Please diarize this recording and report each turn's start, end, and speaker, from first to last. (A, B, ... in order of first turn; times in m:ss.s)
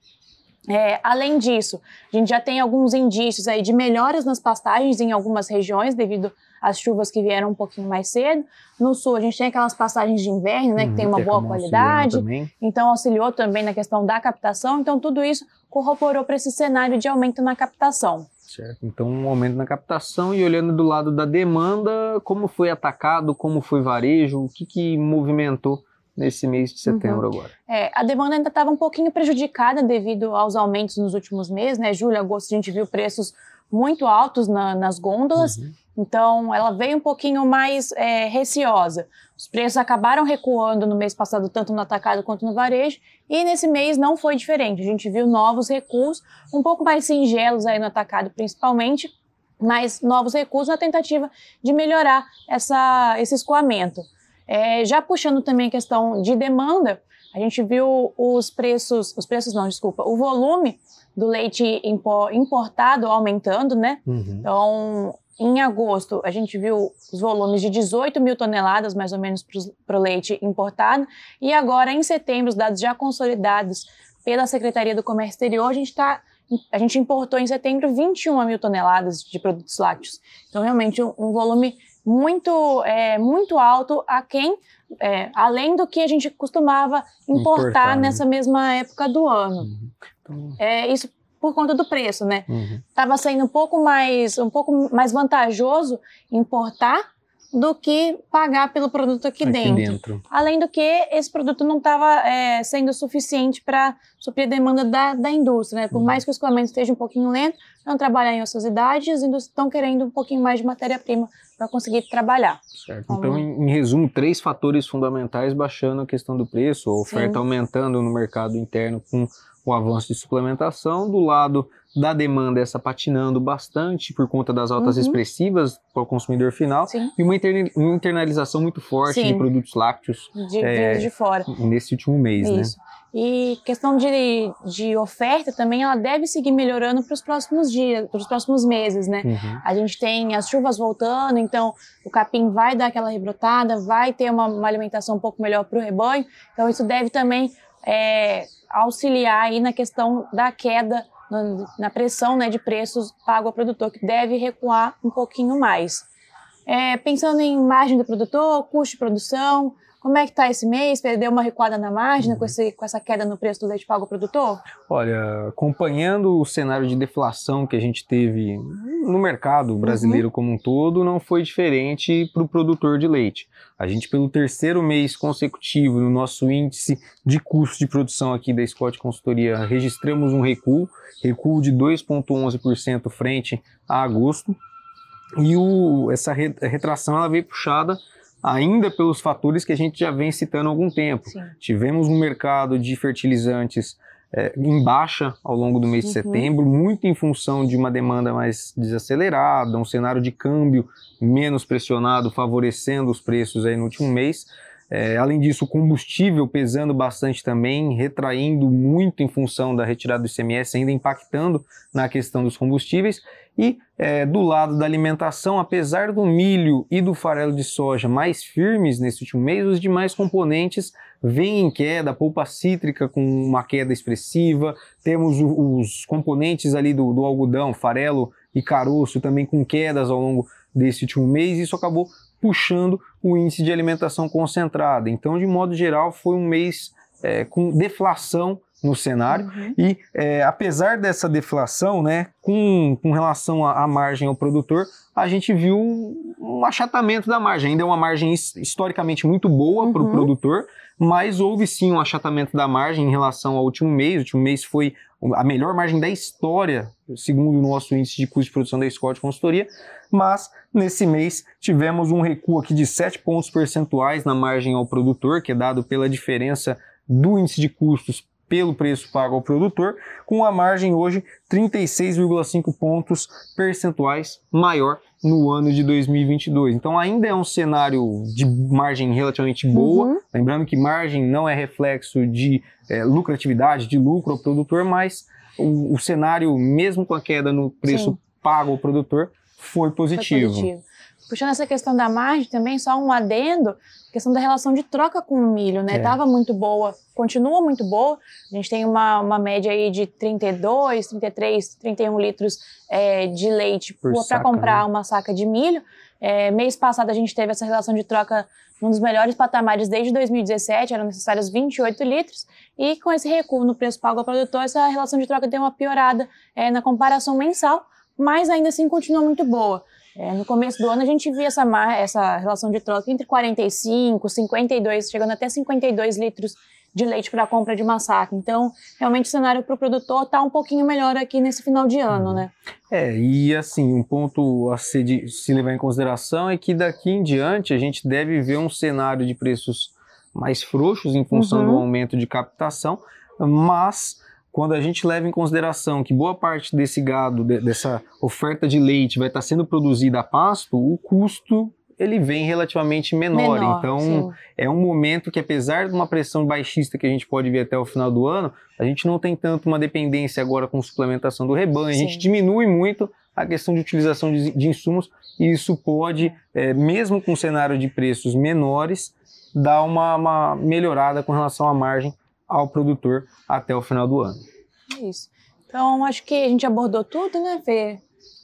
0:00.7-0:18.3 A
0:10.8-0:12.5 B
0:18.5-0:27.5 B
0:26.9-1:29.7 A
0:35.4-0:35.6 B
1:04.1-1:04.5 B
1:27.3-1:28.2 B
1:29.7-1:30.6 B
1:30.6-1:53.4 A
1:32.5-1:32.8 B
1:39.4-1:40.2 B
1:52.8-2:12.7 B
1:57.1-1:57.4 A
2:04.8-2:05.2 A
2:09.0-2:09.4 A
2:10.3-2:11.5 A
2:12.4-2:36.0 A
2:19.2-2:19.6 B
2:36.6-2:44.6 A
2:42.2-2:42.5 B
2:44.9-3:04.6 B
2:49.8-2:50.2 A
3:05.4-4:50.7 B
3:16.0-3:16.5 A
3:59.3-3:59.7 A
4:09.8-4:10.3 A
4:39.7-4:40.2 A
4:47.8-4:48.2 A
4:50.1-5:32.5 A
4:55.9-4:56.2 B
5:04.0-5:04.8 B
5:32.1-6:14.4 B
5:41.3-5:41.8 A
5:53.3-5:54.4 A
6:01.9-6:02.3 A
6:14.9-6:18.0 A